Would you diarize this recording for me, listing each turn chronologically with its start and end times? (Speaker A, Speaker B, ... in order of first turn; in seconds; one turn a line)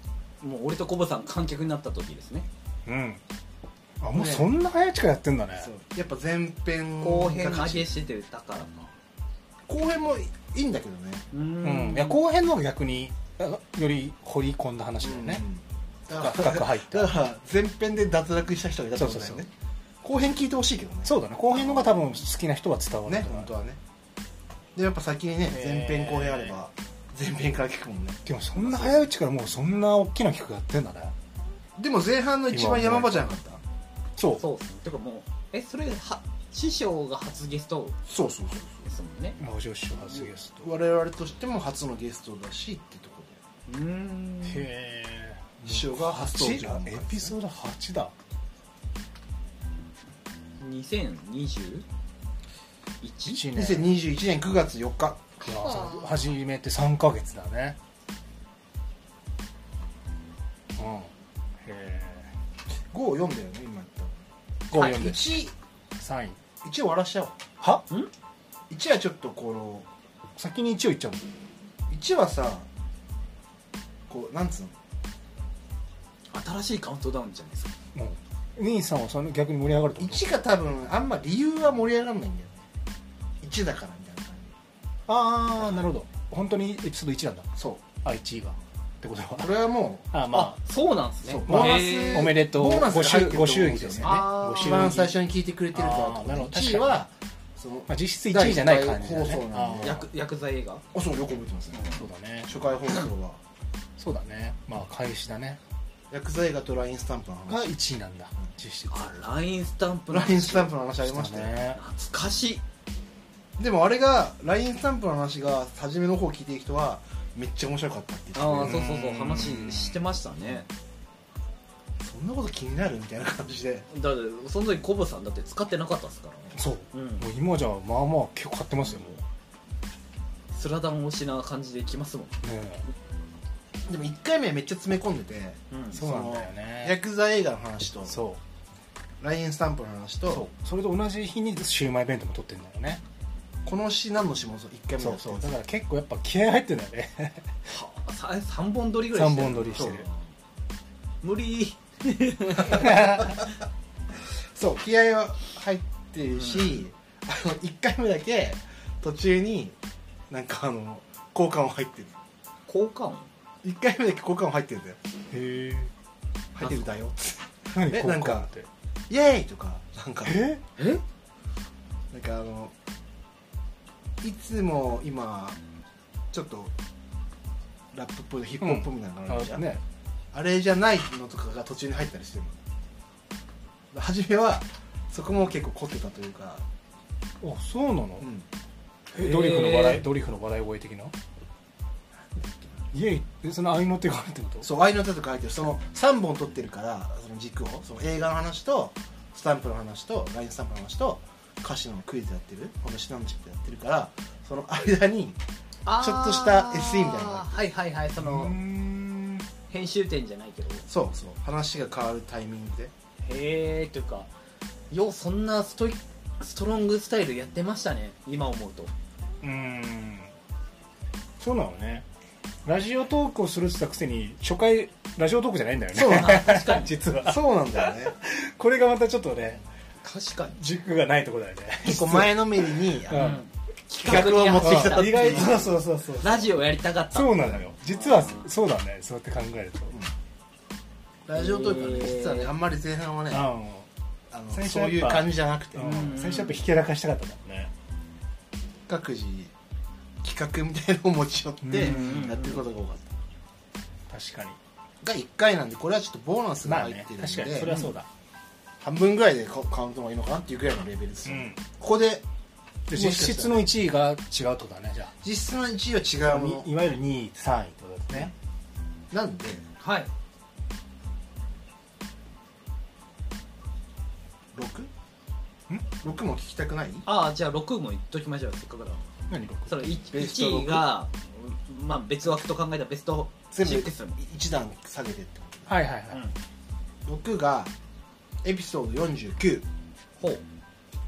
Speaker A: 0.4-2.5
Speaker B: 2.9-3.2
Speaker B: 4.0-5.7
Speaker C: 4.1-4.5
Speaker C: 5.6-7.9
Speaker A: 7.0-8.9
Speaker C: 9.7-11.3
Speaker A: 11.3-12.2
Speaker B: 11.6-15.4
Speaker C: 15.0-19.5
Speaker B: 16.1-17.1
Speaker B: 19.0-19.4
Speaker C: 20.0-22.1
Speaker B: 21.1-23.5
Speaker C: 23.1-23.8
Speaker C: 24.8-29.0
Speaker B: 25.5-26.6
Speaker B: 28.2-31.1
Speaker C: 31.8-33.6
Speaker B: 32.5-33.3
Speaker B: 34.2-34.4
Speaker A: 34.4-38.0
Speaker C: 38.1-38.8
Speaker A: 38.8-39.4
Speaker B: 39.4-40.7
Speaker C: 40.1-43.4
Speaker A: 43.7-44.7
Speaker B: 44.5-48.1
Speaker C: 45.6-47.3
Speaker A: 50.6-51.9
Speaker A: 53.0-53.4
Speaker B: 53.3-53.9
Speaker C: 53.5-55.9
Speaker B: 55.4-57.8
Speaker B: 60.8-61.1
Speaker B: 61.6-62.3
Speaker C: 62.9-64.2
Speaker B: 64.7-65.3
Speaker C: 64.7-65.5
Speaker B: 66.0-66.4
Speaker C: 66.6-67.4
Speaker C: 68.7-69.9
Speaker B: 70.4-71.2
Speaker C: 71.9-72.7
Speaker C: 74.1-74.7
Speaker A: 76.3-77.7
Speaker B: 77.9-80.2
Speaker C: 80.0-82.7
Speaker C: 83.4-84.5
Speaker B: 85.1-87.5
Speaker C: 87.6-87.8
Speaker B: 88.0-89.6
Speaker C: 89.4-90.1
Speaker B: 90.1-90.6
Speaker A: 90.3-92.3
Speaker C: 91.3-100.0
Speaker B: 91.5-95.1
Speaker A: 94.0-95.1
Speaker B: 95.7-97.0
Speaker B: 97.9-100.0
Speaker A: 99.8-100.8
Speaker C: 100.9-101.9
Speaker B: 101.8-102.5
Speaker C: 102.5-103.4
Speaker B: 104.0-105.6
Speaker C: 106.1-107.7
Speaker B: 107.5-109.2
Speaker A: 108.9-110.7
Speaker C: 110.1-111.6
Speaker B: 111.0-111.8
Speaker A: 111.8-112.6
Speaker C: 113.6-118.8
Speaker A: 118.3-120.7
Speaker B: 118.7-120.0
Speaker C: 122.0-123.9
Speaker A: 123.9-127.3
Speaker B: 126.5-129.2
Speaker A: 128.9-129.1
Speaker A: 130.5-132.4
Speaker B: 132.4-132.8
Speaker C: 133.9-138.2
Speaker A: 135.7-136.0
Speaker B: 135.9-137.0
Speaker B: 138.1-138.4
Speaker C: 139.2-140.5
Speaker B: 140.3-143.0
Speaker C: 143.7-145.5
Speaker B: 145.0-147.5
Speaker A: 147.7-150.1
Speaker B: 149.1-150.1
Speaker A: 151.2-153.4
Speaker B: 152.7-153.3
Speaker C: 154.5-159.8
Speaker A: 156.3-156.8
Speaker C: 160.3-162.2
Speaker A: 162.7-163.3
Speaker C: 163.6-165.0
Speaker B: 165.3-165.9
Speaker C: 166.6-168.5
Speaker A: 166.6-166.9
Speaker B: 167.7-168.7
Speaker C: 169.1-170.4
Speaker B: 170.2-170.6
Speaker A: 170.8-171.0
Speaker C: 172.1-172.7
Speaker C: 174.2-175.6
Speaker C: 176.3-176.7
Speaker C: 177.9-179.7
Speaker B: 178.6-179.8
Speaker C: 180.3-182.6
Speaker C: 183.9-186.6
Speaker B: 187.4-188.3
Speaker C: 188.2-188.5
Speaker A: 189.1-190.1
Speaker B: 189.1-191.2
Speaker C: 192.3-192.8
Speaker B: 192.9-194.7
Speaker C: 194.6-205.4
Speaker A: 205.9-208.6
Speaker C: 206.0-207.6
Speaker B: 208.2-209.5
Speaker A: 209.7-210.8
Speaker C: 210.9-212.9
Speaker A: 213.2-214.3
Speaker A: 214.9-218.9
Speaker B: 219.4-220.3
Speaker B: 221.4-222.1
Speaker B: 222.7-229.6
Speaker C: 225.9-226.5
Speaker A: 226.1-226.9
Speaker C: 227.2-228.2
Speaker A: 230.0-230.6
Speaker B: 230.6-233.4
Speaker C: 231.8-233.3
Speaker A: 233.1-238.5
Speaker C: 234.0-235.7
Speaker B: 234.1-236.6
Speaker B: 237.1-240.0
Speaker C: 241.3-243.5
Speaker A: 241.3-242.5
Speaker B: 243.3-243.9
Speaker C: 244.3-246.2
Speaker B: 244.5-247.7
Speaker A: 245.8-246.6
Speaker C: 248.9-249.5
Speaker C: 250.2-253.2
Speaker B: 251.6-252.3
Speaker A: 251.7-252.7
Speaker B: 254.1-254.6
Speaker C: 255.0-257.7
Speaker B: 256.6-258.1
Speaker A: 257.6-257.9
Speaker C: 258.8-262.2
Speaker B: 261.3-261.6
Speaker C: 262.9-263.7
Speaker B: 262.9-265.1
Speaker C: 265.2-266.7
Speaker B: 266.2-268.3
Speaker C: 269.1-269.6
Speaker A: 269.8-270.1
Speaker C: 274.5-274.9
Speaker C: 276.0-277.1
Speaker A: 277.1-279.1
Speaker B: 279.3-279.7
Speaker A: 279.7-284.2
Speaker C: 280.1-280.9
Speaker C: 283.5-285.8
Speaker B: 285.7-286.2
Speaker A: 286.1-286.4
Speaker C: 287.1-287.7
Speaker C: 288.4-289.7